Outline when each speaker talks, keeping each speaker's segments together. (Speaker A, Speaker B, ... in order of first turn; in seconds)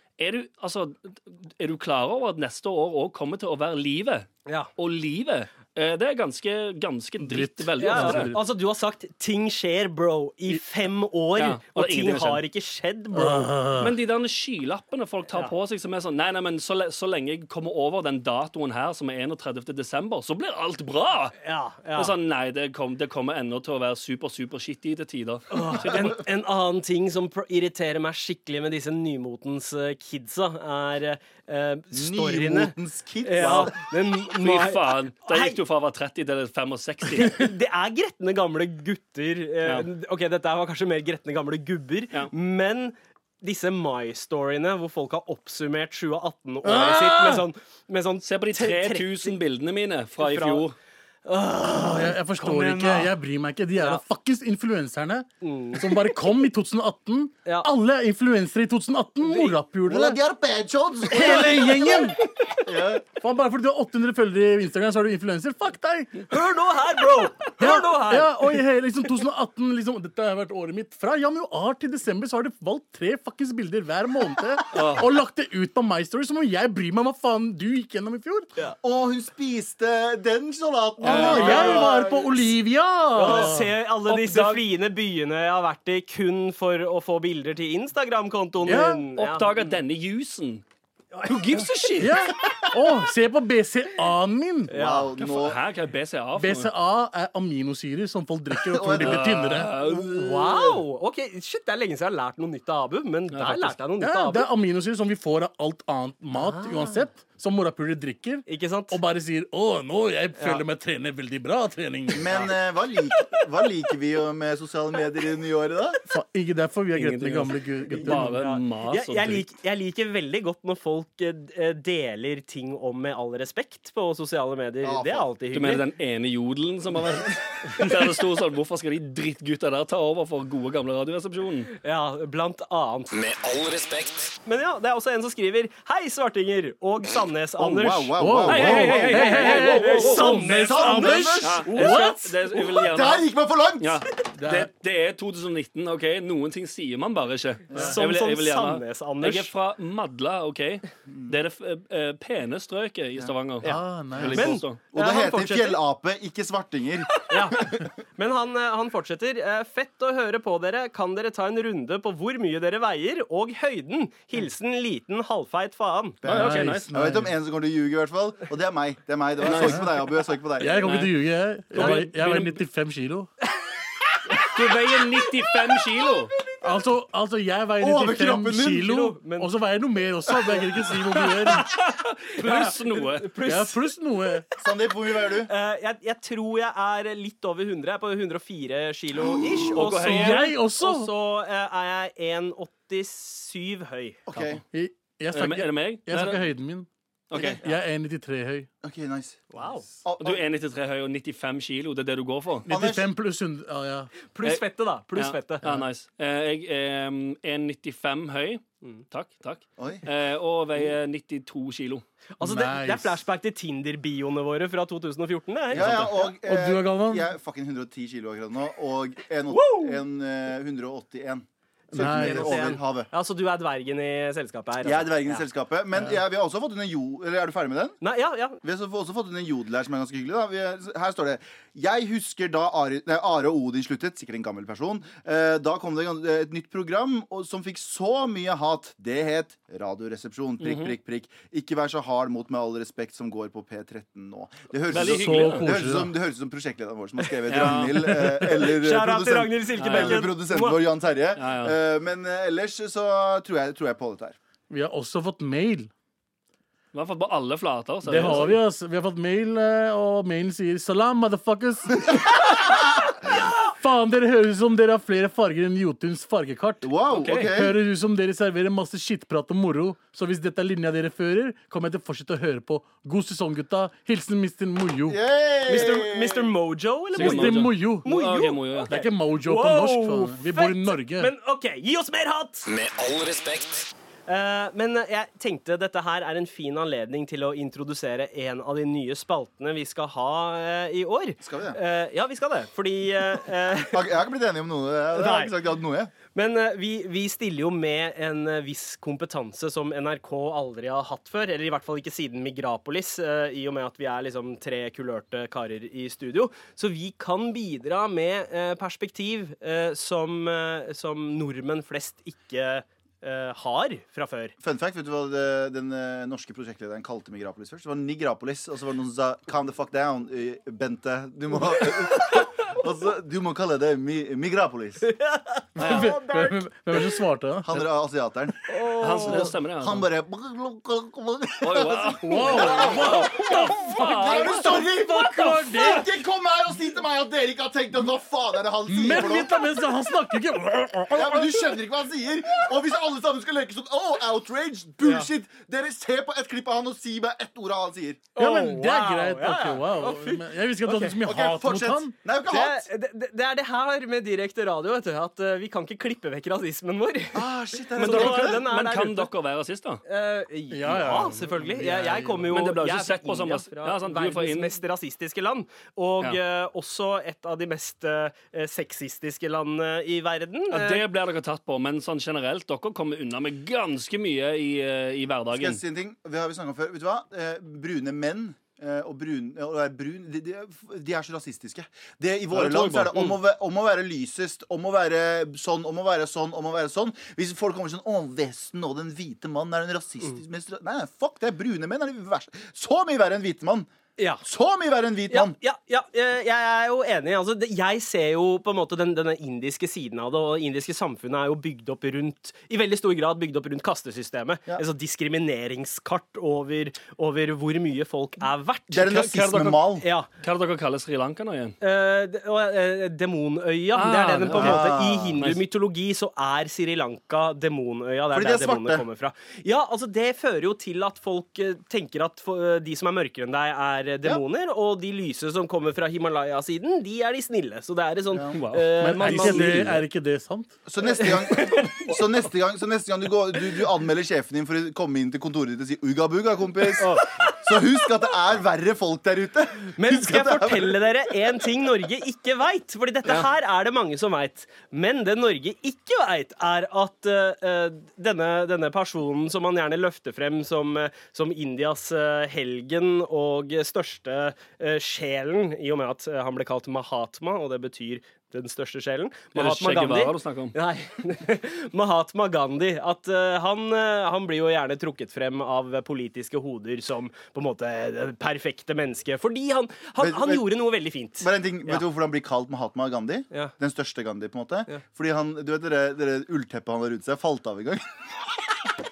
Speaker A: 0.2-8.3, 11.4-12.4, 13.8-21.4, 21.9-26.1, 33.4-33.7, 34.3-37.4, 48.2-50.7, 74.7-75.1, 81.1-81.8, 84.1-84.6, 89.1-90.6, 91.3-92.1, 95.2-96.7, 99.0-100.6, 103.3-103.8, 118.0-119.5, 125.5-131.7, 138.4-140.5, 141.4-143.3, 143.8-154.8, 166.2-166.9, 170.8-171.1, 171.7-172.6, 174.3-176.3, 181.1-183.3, 189.7-190.4, 195.3-196.4, 197.3-197.6, 200.2-202.7, 204.4-212.0, 215.7-216.1, 240.6-240.9, 244.9-245.8, 247.5-248.0, 249.8-250.3, 251.3-251.8, 256.9-258.6, 267.1-267.5, 277.1-279.0, 329.0-330.1, 331.6-334.8, 357.9-360.0, 362.4-364.8, 370.7-375.8, 382.5-383.4, 409.1-409.8, 410.4-411.8, 413.9-415.6, 428.5-429.9, 437.0-437.3, 459.5-460.7
Speaker B: 7.2-8.4, 13.1-13.9, 46.6-47.5, 51.7-60.2, 61.1-62.2, 63.1-66.2, 67.6-78.5, 81.0-83.7, 88.6-89.0, 92.0-94.8, 96.3-99.7, 104.0-112.3, 116.1-118.4, 138.2-142.2, 144.3-144.7, 153.6-154.5, 166.3-167.3, 169.4-169.8, 170.6-173.3, 176.6-181.7, 183.4-184.5, 189.7-191.1, 194.7-196.9, 197.6-198.7, 202.7-204.1, 205.6-205.9, 212.4-213.2, 216.3-217.3, 221.9-222.5, 244.9-246.1, 247.8-248.6, 254.7-255.9, 258.0-262.6, 263.6-266.9, 267.5-275.2, 277.1-278.1, 278.9-281.3, 325.8-327.7, 332.2-336.1, 338.9-341.7, 348.4-352.1, 360.7-362.5, 429.0-430.8
Speaker C: 7.8-13.6, 21.4-22.1, 25.5-35.6, 37.1-49.4, 50.2-50.6, 51.2-53.1, 55.4-56.2, 57.4-57.7, 59.2-59.5, 61.2-62.5, 66.3-68.6, 81.0-82.5, 83.1-89.8, 91.1-92.0, 94.7-95.1, 99.9-104.5, 106.4-107.1, 108.5-109.0, 110.4-110.6, 112.3-113.3, 116.9-125.8, 131.8-133.2, 134.4-142.0, 147.7-149.5, 153.6-155.8, 157.3-166.2, 169.4-169.8, 171.7-172.1, 178.8-179.5, 182.4-183.9, 185.1-194.2, 199.5-199.8, 204.3-205.6, 212.4-216.2, 219.5-220.0, 222.2-225.4, 228.0-228.6, 248.6-250.8, 275.6-282.7, 284.3-294.1, 295.1-295.6, 296.3-314.5, 325.1-326.4, 328.7-329.5, 332.3-333.2, 345.0-345.3, 348.4-351.2, 352.5-359.3, 360.0-371.0, 394.2-394.4, 395.3-409.2, 410.0-410.3, 411.8-430.0, 431.0-432.2, 437.0-437.6, 439.9-472.0
Speaker D: 31.9-33.8, 59.9-61.9, 62.6-63.0, 78.8-81.9, 94.7-95.6, 98.7-99.2, 112.2-116.0, 124.8-125.3, 137.6-139.2, 140.4-144.0, 147.7-148.0, 151.1-151.3, 154.9-157.9, 166.2-170.9, 177.8-178.8, 184.6-185.5, 189.2-189.6, 194.3-194.6, 198.8-200.4, 202.7-203.1, 209.8-210.1, 215.7-223.1, 224.8-228.0, 228.6-254.3, 266.8-267.7, 275.1-276.5, 291.4-291.8, 293.8-296.1, 314.6-325.1, 325.8-326.1, 327.6-328.6, 329.2-339.5, 341.1-348.3, 351.2-352.9, 357.3-358.6, 375.5-393.9, 394.4-395.6, 408.9-410.1, 414.5-415.4, 418.3-419.1, 428.3-428.6, 430.9-441.7, 470.2-470.8, 471.4-478.3
Speaker E: 133.1-134.3, 282.7-283.9